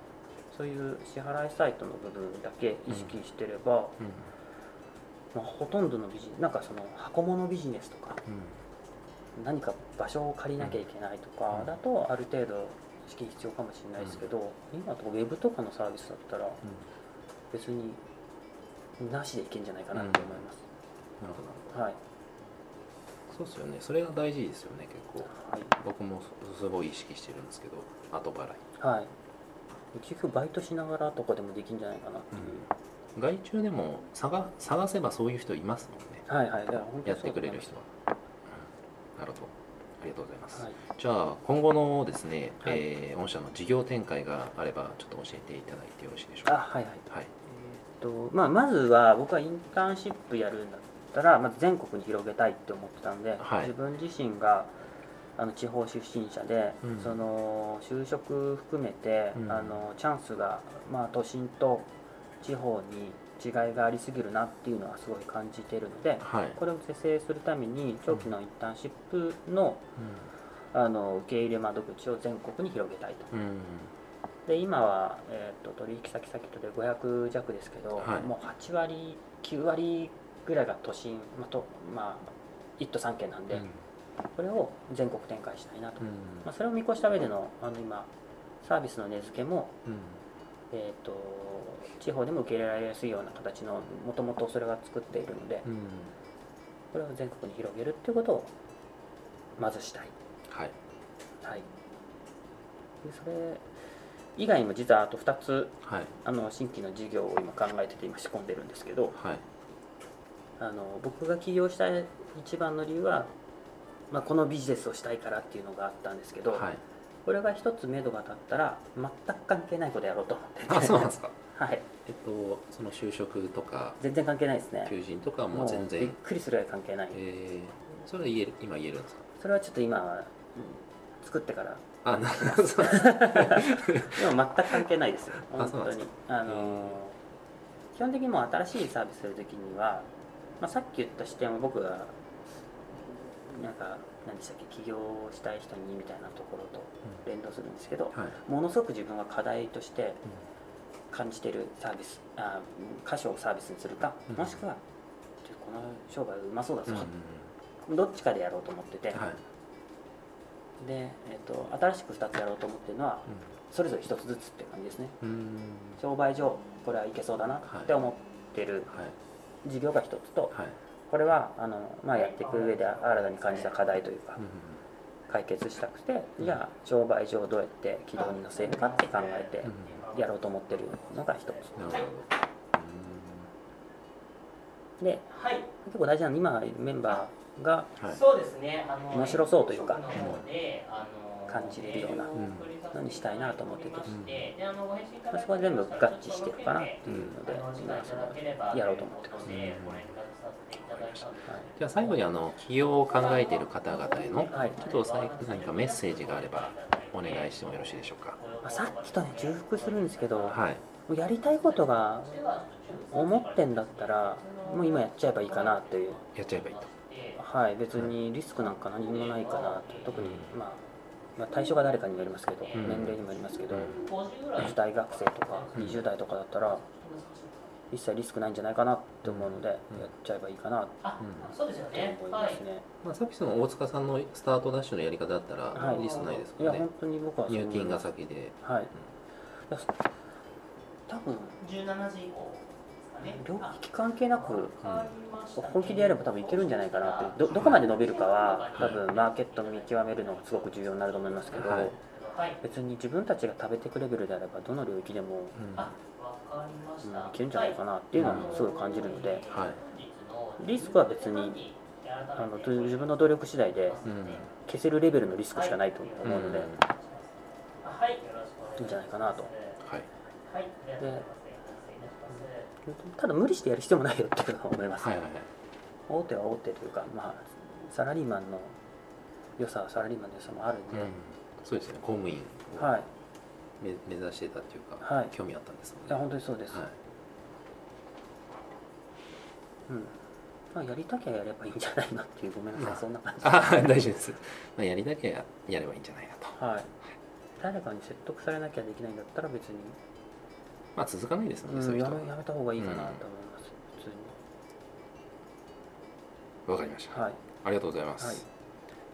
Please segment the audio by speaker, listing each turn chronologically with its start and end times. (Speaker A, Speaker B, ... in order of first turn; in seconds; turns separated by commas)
Speaker A: 0.5-4.0, Speaker B: 4.0-4.3, Speaker A: 5.3-8.2, Speaker B: 8.3-8.6, Speaker A: 9.4-16.6, Speaker B: 14.0-14.3, Speaker A: 17.5-18.0, Speaker A: 19.0-20.6, Speaker B: 19.9-20.4, Speaker B: 21.2-21.7, Speaker A: 21.7-22.0, Speaker B: 23.3-28.6, Speaker A: 25.3-25.8, Speaker A: 28.8-29.1, Speaker A: 29.9-32.7, Speaker B: 32.3-36.3, Speaker A: 36.3-37.8, Speaker B: 37.1-37.9, Speaker B: 38.5-46.6, Speaker A: 46.5-54.7, Speaker B: 53.4-53.7, Speaker A: 55.4-69.8, Speaker B: 56.8-57.2, Speaker B: 59.4-59.8, Speaker B: 66.2-66.6, Speaker B: 70.0-70.3, Speaker A: 70.7-73.3, Speaker B: 73.3-73.9, Speaker A: 74.5-83.7, Speaker B: 78.0-78.3, Speaker A: 84.4-88.1, Speaker B: 86.0-86.5, Speaker A: 88.6-89.8, Speaker B: 89.9-90.2, Speaker A: 90.7-95.7, Speaker B: 95.7-96.2, Speaker A: 96.9-98.5, Speaker A: 99.6-100.1, Speaker B: 100.5-100.8, Speaker A: 103.0-103.7, Speaker A: 104.4-109.2, Speaker B: 105.8-106.1, Speaker B: 109.1-109.4, Speaker A: 110.6-113.3, Speaker A: 114.1-116.7, Speaker B: 116.5-116.8, Speaker A: 117.3-121.9, Speaker B: 120.7-121.4, Speaker B: 122.0-124.0, Speaker A: 124.0-125.0, Speaker B: 124.8-126.2, Speaker A: 125.5-127.2, Speaker B: 127.1-129.3, Speaker A: 129.4-137.2, Speaker B: 132.0-134.3, Speaker B: 135.5-137.0, Speaker A: 137.9-140.1, Speaker A: 140.6-142.2, Speaker A: 143.4-150.3, Speaker A: 151.1-154.8, Speaker B: 154.3-154.6, Speaker A: 155.4-157.1, Speaker B: 156.9-157.5, Speaker A: 157.9-159.2, Speaker B: 159.1-159.4, Speaker A: 160.8-165.2, Speaker B: 165.2-166.0, Speaker A: 166.0-168.9, Speaker B: 167.7-167.9, Speaker B: 168.9-169.2, Speaker A: 169.6-174.4, Speaker C: 172.1-173.8, Speaker B: 174.4-174.8, Speaker A: 175.3-182.1, Speaker C: 178.2-182.1, Speaker B: 179.6-180.0, Speaker B: 181.8-183.5, Speaker A: 185.0-187.9, Speaker C: 185.3-185.7, Speaker C: 188.1-202.3, Speaker A: 189.1-190.1, Speaker B: 190.1-190.5, Speaker A: 191.5-192.3, Speaker B: 192.3-192.7, Speaker A: 192.9-194.2, Speaker B: 194.1-194.5, Speaker A: 195.3-199.6, Speaker B: 197.1-197.4, Speaker B: 199.5-200.1, Speaker B: 200.8-208.4, Speaker C: 203.0-210.6, Speaker A: 204.5-204.9, Speaker A: 208.6-216.2, Speaker B: 210.5-210.8, Speaker C: 211.6-217.4, Speaker B: 216.3-216.8, Speaker A: 217.4-220.8, Speaker C: 218.8-220.3, Speaker B: 220.2-220.5, Speaker A: 221.4-224.0, Speaker C: 221.6-226.1, Speaker B: 222.7-223.2, Speaker B: 223.7-224.0, Speaker A: 224.6-226.8, Speaker B: 225.8-226.0, Speaker C: 226.7-227.8, Speaker A: 227.9-231.0, Speaker B: 229.2-230.1, Speaker C: 231.0-232.6, Speaker B: 231.2-231.5, Speaker A: 231.9-232.8, Speaker B: 233.0-236.9, Speaker C: 235.7-236.5, Speaker A: 235.8-238.0, Speaker B: 237.5-238.6, Speaker A: 238.6-238.9, Speaker A: 239.7-240.0, Speaker A: 241.1-241.6, Speaker C: 241.6-243.8, Speaker A: 243.2-244.8, Speaker C: 244.4-252.6, Speaker B: 244.8-245.1, Speaker A: 245.6-252.0, Speaker B: 247.6-247.8, Speaker B: 248.8-249.0, Speaker B: 251.5-251.9, Speaker A: 252.6-255.6, Speaker B: 255.6-255.9, Speaker C: 255.7-264.6, Speaker A: 257.0-259.4, Speaker B: 258.2-258.6, Speaker B: 259.5-259.8, Speaker A: 260.6-261.6, Speaker A: 262.4-264.0, Speaker B: 264.1-264.5, Speaker A: 264.6-266.7, Speaker C: 265.5-269.8, Speaker B: 266.2-266.9, Speaker A: 268.8-269.5, Speaker B: 269.8-270.1, Speaker C: 270.4-272.7, Speaker A: 271.0-271.2, Speaker A: 272.9-275.1, Speaker B: 275.0-275.5, Speaker A: 276.1-278.8, Speaker A: 279.6-281.2, Speaker B: 280.9-282.9, Speaker A: 282.8-283.1, Speaker B: 283.8-287.0, Speaker A: 285.0-285.3, Speaker A: 286.1-286.8, Speaker A: 289.9-290.2, Speaker A: 290.7-293.9, Speaker B: 292.8-296.6, Speaker A: 296.6-296.9, Speaker A: 297.6-300.0, Speaker B: 300.9-303.2, Speaker A: 301.6-304.4, Speaker B: 306.7-308.4, Speaker A: 307.1-307.4, Speaker A: 308.2-308.4